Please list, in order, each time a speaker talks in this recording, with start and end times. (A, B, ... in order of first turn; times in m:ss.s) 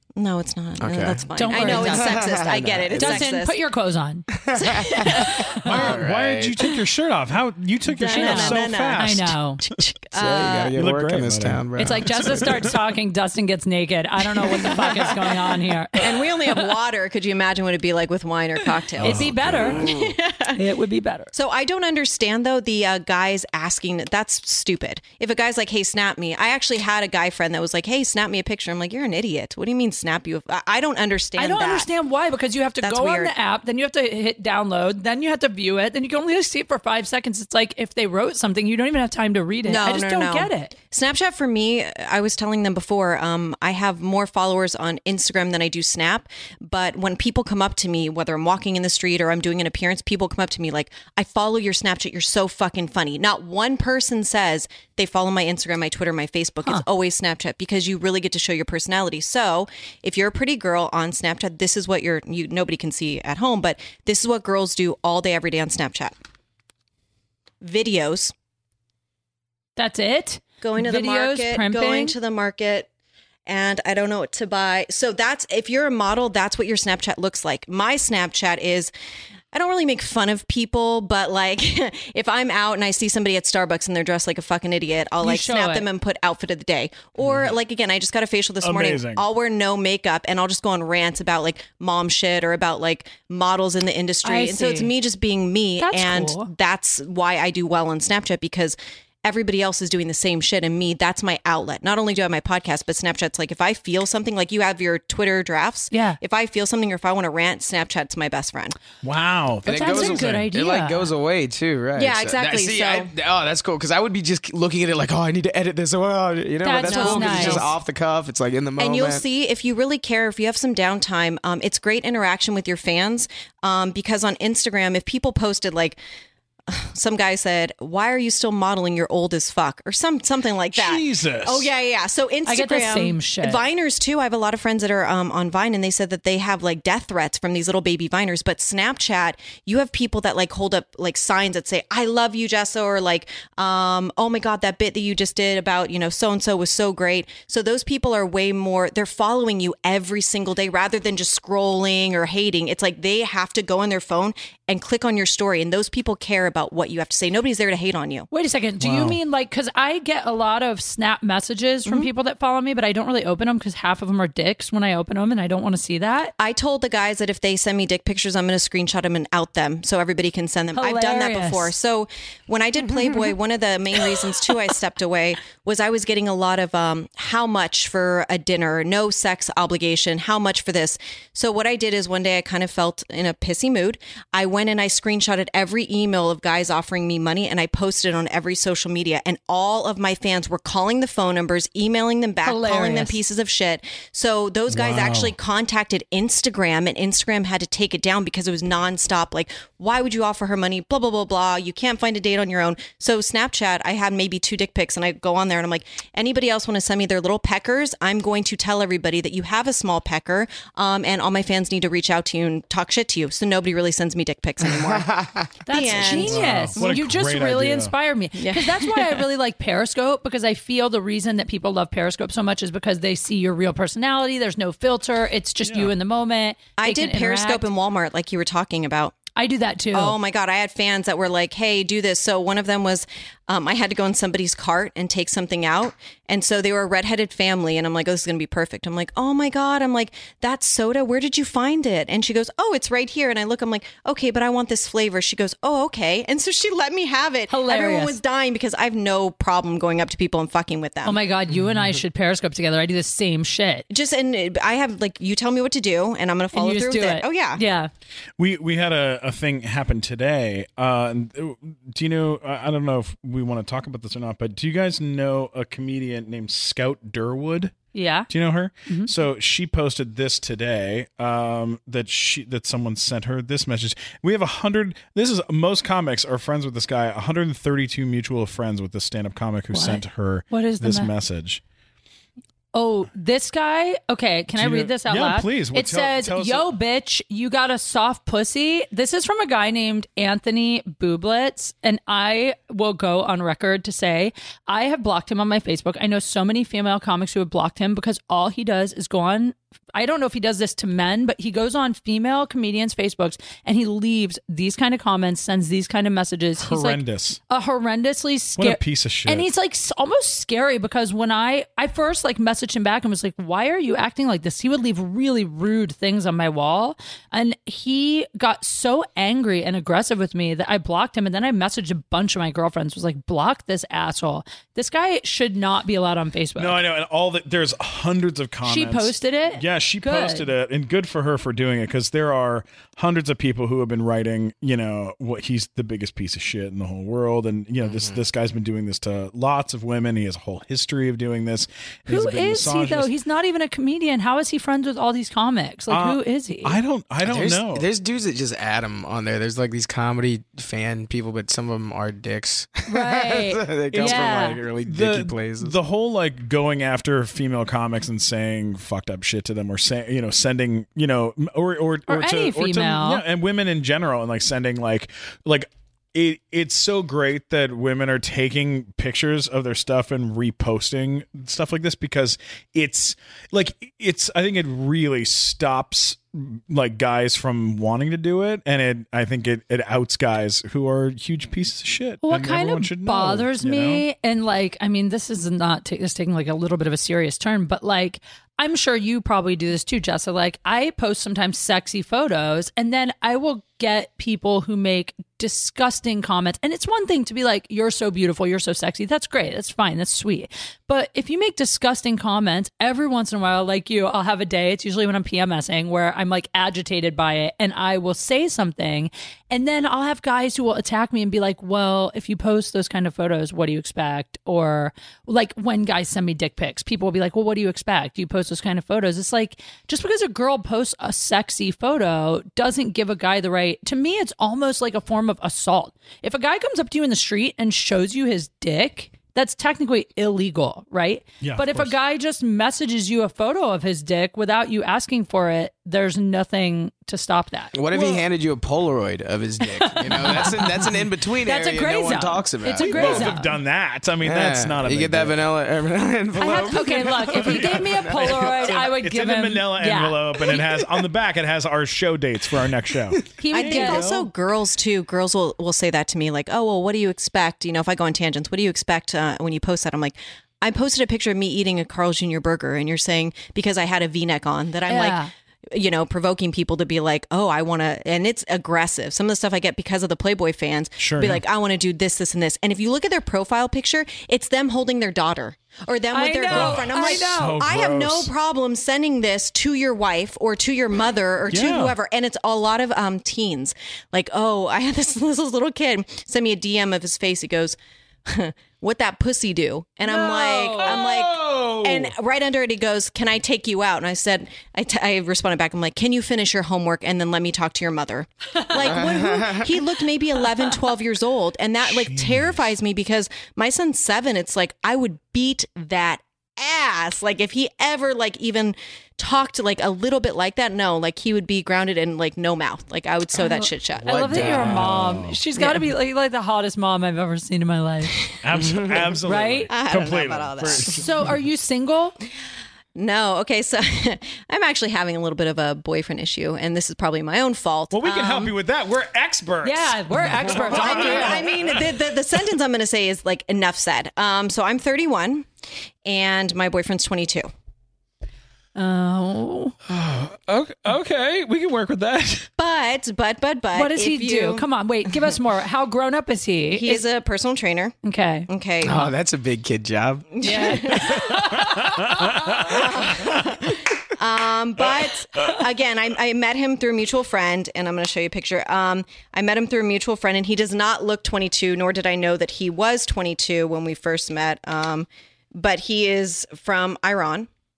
0:00.2-0:03.6 A
0:00.8-0:03.3 B
0:01.4-0:02.3 C
0:03.0-0:05.7 C
0:04.4-0:06.6 B
0:04.5-0:05.5 A
0:05.6-0:09.4 D
0:07.9-0:10.7 A
0:08.0-0:09.6 C
0:10.2-0:12.7 B
0:10.7-0:12.7 D
0:11.8-0:16.6 C
0:14.5-0:15.1 A
0:16.0-0:20.6 A
0:19.0-0:19.9 D
0:19.0-0:19.8 C
0:19.8-0:20.2 B
0:20.5-0:21.3 C
0:21.3-0:31.9 A
0:31.4-0:40.7 C
0:32.8-0:33.3 A
0:39.6-1:06.1 A
1:07.6-1:08.3 A
1:09.8-1:12.2 C
1:10.6-1:12.9 A
1:13.5-1:18.9 A
1:19.5-1:48.8 A
1:25.2-1:25.9 C
1:27.2-1:27.5 D
1:28.6-1:29.2 D
1:34.2-1:34.9 C
1:35.8-1:36.5 C
1:45.9-1:46.2 C
1:49.0-1:50.5 D
1:49.6-1:59.2 B
1:49.7-1:51.1 C
1:52.0-1:53.1 A
1:56.6-1:57.7 C
1:56.8-1:57.7 A
1:58.8-2:06.0 A
2:06.7-2:38.3 A
2:10.7-2:11.7 D
2:12.5-2:13.6 C
2:38.3-2:46.3 C
2:38.8-2:39.2 D
2:46.4-3:36.7 A
2:50.7-2:51.7 C
3:12.4-3:13.2 C
3:14.7-3:15.4 D
3:35.0-3:35.5 B
3:35.7-3:47.7 C
3:35.9-3:37.9 D
3:38.4-3:39.2 A
3:45.7-3:45.9 D
3:46.8-3:49.2 A
3:49.4-3:50.2 C
3:49.9-4:11.2 A
4:07.5-4:08.2 C
4:11.0-4:13.8 C
4:13.9-4:17.6 A
4:16.5-4:17.9 C
4:18.4-4:27.8 D
4:27.9-4:28.3 C
4:28.3-4:41.6 D
4:39.7-4:41.1 C
4:42.7-5:26.8 C
4:44.6-4:46.7 D
5:06.6-5:07.4 D
5:08.6-5:09.5 D
5:26.6-5:43.1 D
5:28.6-5:30.5 C
5:37.8-5:38.2 B
5:42.1-5:46.8 C
5:45.9-5:47.9 D
5:47.2-5:55.8 B
5:52.9-5:54.6 C
5:54.0-6:24.0 D
6:02.1-6:03.2 C
6:22.2-7:17.8 C
7:11.4-7:11.9 D
7:17.7-7:23.4 B
7:17.9-7:18.2 D
7:19.8-7:20.9 C
7:21.4-7:23.6 C
7:22.8-7:25.5 D
7:24.2-7:28.6 B
7:26.4-7:30.5 C
7:27.3-7:34.3 D
7:32.9-7:33.2 B
7:33.4-7:34.1 C
7:33.5-8:34.6 A
7:44.9-7:45.3 C
7:51.0-7:51.4 D
7:56.1-7:57.6 C
7:56.5-7:58.3 D
8:01.5-8:02.0 D
8:10.1-8:11.1 C
8:10.8-8:12.1 D
8:18.5-8:19.0 C
8:18.8-8:19.7 B
8:21.8-8:22.6 D
8:33.4-8:38.2 C
8:34.0-8:34.8 B
8:34.4-8:35.4 D
8:35.6-8:35.9 A
8:38.4-8:41.0 D
8:38.7-8:39.0 B
8:39.2-8:39.7 C
8:39.7-8:41.0 A
8:40.7-8:42.2 C
8:43.0-8:48.1 A
8:47.9-8:51.8 D
8:48.1-8:48.5 C
8:49.6-8:51.4 C
8:50.4-8:55.5 A
8:56.0-8:57.5 A
8:58.8-8:59.7 C
8:59.9-9:02.5 D
9:02.6-9:04.7 A
9:03.7-9:07.0 C
9:06.7-9:08.0 A
9:08.0-9:08.5 C
9:08.5-9:09.1 A
9:08.8-9:10.9 B
9:10.3-9:11.6 A
9:10.4-9:12.2 C
9:11.1-9:13.4 D
9:12.5-9:27.5 A